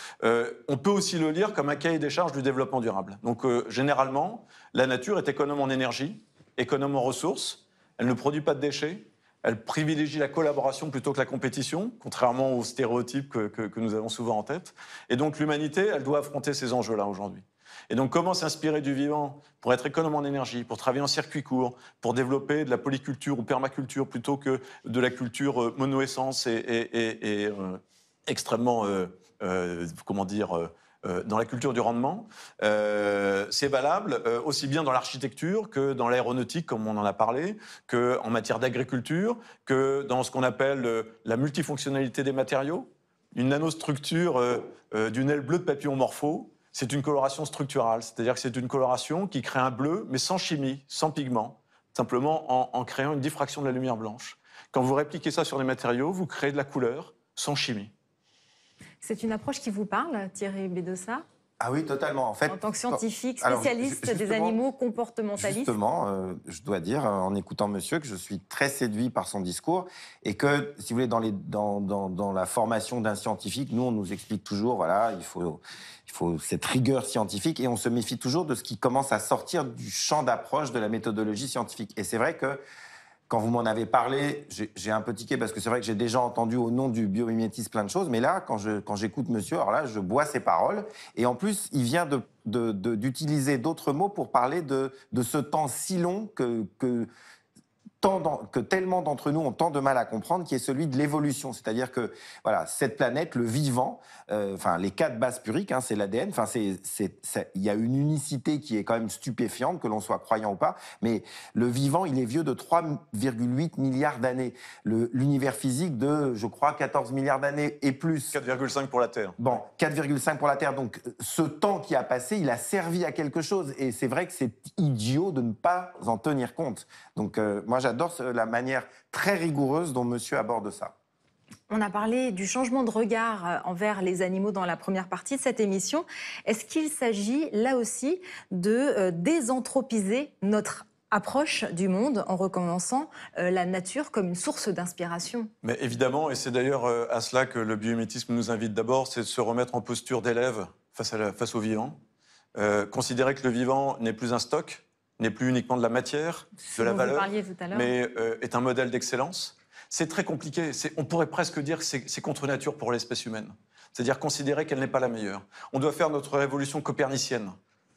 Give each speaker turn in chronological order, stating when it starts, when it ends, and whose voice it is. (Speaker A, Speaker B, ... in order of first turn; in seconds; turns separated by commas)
Speaker A: 0.2-57.9, Speaker B: 59.0-61.2, Speaker C: 61.6-64.6, Speaker B: 62.5-65.8, Speaker C: 65.4-82.6, Speaker C: 83.3-97.1, Speaker C: 98.0-118.4, Speaker A: 118.3-119.4, Speaker C: 119.4-130.9, Speaker B: 131.7-145.5, Speaker A: 145.6-152.0, Speaker A: 152.6-167.6, Speaker B: 156.7-157.9